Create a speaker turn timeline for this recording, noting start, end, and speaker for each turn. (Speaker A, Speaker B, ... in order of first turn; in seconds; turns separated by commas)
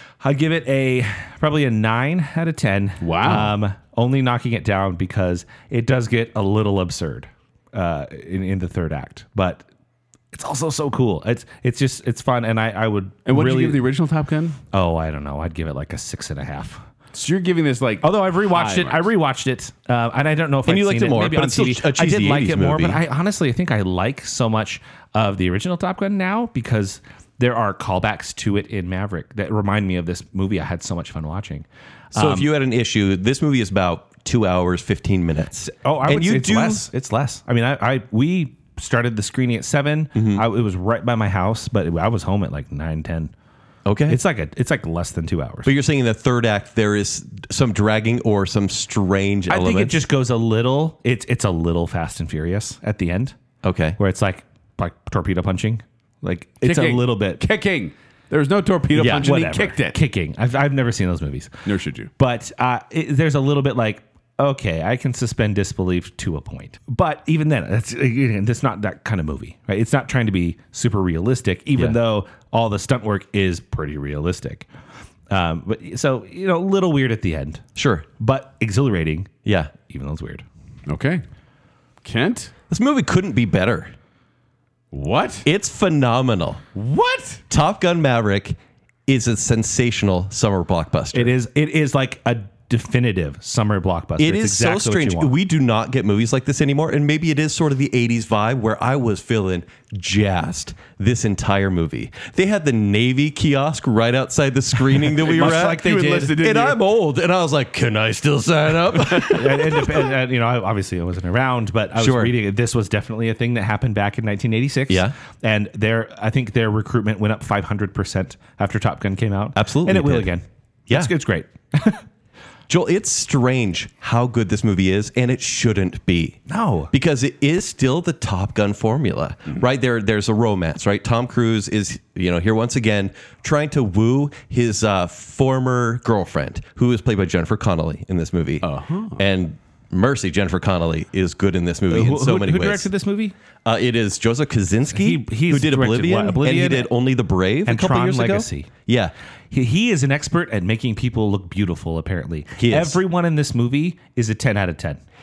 Speaker A: 0.2-9.7, Speaker B: 3.0-3.5, Speaker A: 10.3-13.8, Speaker B: 13.3-14.6, Speaker A: 14.7-16.8, Speaker B: 17.1-19.1, Speaker A: 18.0-32.5, Speaker C: 20.6-23.0, Speaker C: 32.1-36.9, Speaker A: 35.6-43.3, Speaker C: 40.1-40.4, Speaker C: 43.8-44.2, Speaker A: 44.1-45.7, Speaker C: 45.6-50.0, Speaker A: 49.5-53.4, Speaker C: 53.6-54.0, Speaker A: 54.0-57.4, Speaker B: 56.6-60.0, Speaker C: 58.9-59.3, Speaker A: 59.2-61.5, Speaker B: 61.6-62.1, Speaker A: 62.2-74.7, Speaker A: 75.3-77.6, Speaker C: 77.8-78.0, Speaker A: 78.2-80.4, Speaker C: 79.4-79.7, Speaker B: 80.9-81.2, Speaker B: 82.0-82.5, Speaker C: 82.7-83.9, Speaker B: 84.9-85.5, Speaker C: 85.4-86.7, Speaker B: 86.9-87.3, Speaker C: 87.5-91.3, Speaker A: 91.1-95.3, Speaker C: 94.2-110.1, Speaker A: 105.1-106.4, Speaker B: 105.2-106.8, Speaker A: 109.1-122.0, Speaker C: 112.0-112.3, Speaker C: 114.9-115.1, Speaker C: 119.5-120.3, Speaker C: 122.7-126.4, Speaker A: 126.5-126.9, Speaker C: 126.9-142.9, Speaker B: 138.6-139.2, Speaker A: 141.9-143.3, Speaker C: 143.6-149.1, Speaker A: 144.9-146.9, Speaker A: 147.7-148.7, Speaker A: 149.5-155.0, Speaker C: 152.6-153.0